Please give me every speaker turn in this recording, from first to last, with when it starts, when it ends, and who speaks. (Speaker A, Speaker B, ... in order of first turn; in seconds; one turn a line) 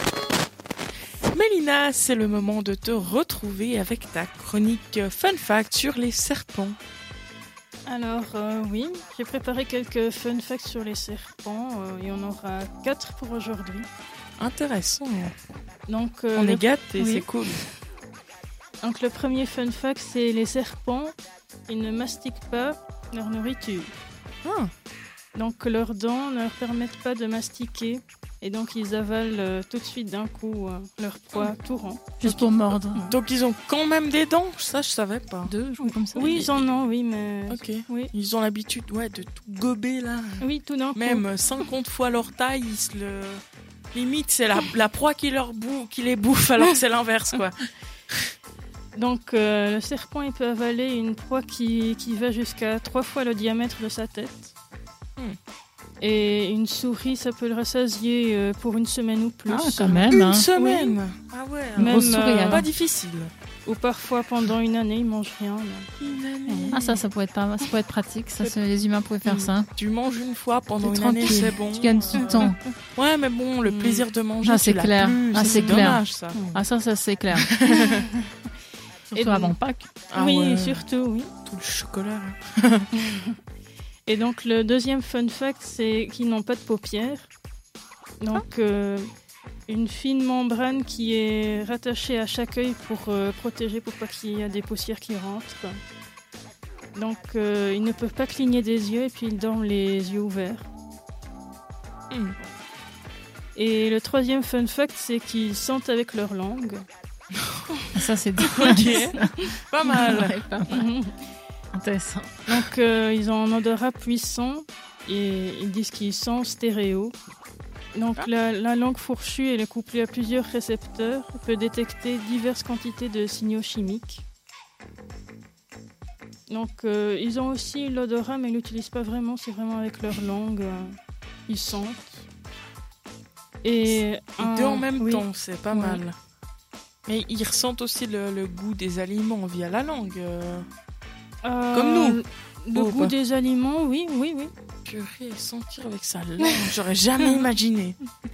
Speaker A: 1.3-6.8
Speaker B: 7.8-13.9
Speaker A: 14.4-15.4
Speaker B: 15.9-17.3
Speaker A: 16.4-17.6
Speaker B: 18.8-21.2
Speaker B: 21.7-23.9
Speaker A: 24.4-24.7
Speaker B: 25.3-33.1
Speaker C: 32.2-33.0
Speaker A: 33.0-36.6
Speaker C: 35.5-36.5
Speaker B: 36.1-38.1
Speaker A: 37.5-40.4
Speaker B: 40.4-41.3
Speaker A: 41.0-43.4
Speaker A: 43.9-48.3
Speaker B: 48.9-54.5
Speaker B: 56.0-61.0
Speaker C: 59.5-60.5
Speaker A: 60.1-63.3
Speaker B: 61.8-62.7
Speaker C: 61.8-62.7
Speaker B: 63.7-65.9
Speaker A: 66.0-67.0
Speaker B: 66.5-66.7
Speaker C: 66.7-69.7
Speaker A: 69.3-76.4
Speaker C: 70.8-72.6
Speaker B: 72.2-72.5
Speaker B: 73.7-74.1
Speaker C: 74.4-77.5
Speaker B: 75.3-76.6
Speaker A: 77.3-78.1
Speaker B: 77.7-78.1
Speaker C: 79.1-79.9
Speaker B: 79.2-79.5
Speaker A: 80.1-80.9
Speaker B: 80.2-81.3
Speaker A: 81.5-82.9
Speaker B: 82.9-83.4
Speaker B: 84.1-87.3
Speaker B: 88.2-89.1
Speaker B: 89.7-95.7
Speaker B: 97.0-100.7
Speaker A: 102.1-102.3
Speaker B: 103.5-106.8
Speaker C: 108.0-110.9
Speaker A: 108.4-110.4
Speaker B: 108.6-109.0
Speaker B: 110.7-111.2
Speaker C: 111.7-112.3
Speaker B: 112.5-117.1
Speaker B: 117.9-124.2
Speaker B: 126.5-131.0
Speaker B: 131.5-132.2
Speaker B: 133.6-136.0
Speaker A: 133.9-136.2
Speaker A: 137.1-140.7
Speaker B: 141.4-144.5
Speaker A: 141.7-142.2
Speaker A: 142.7-143.1
Speaker A: 144.9-148.0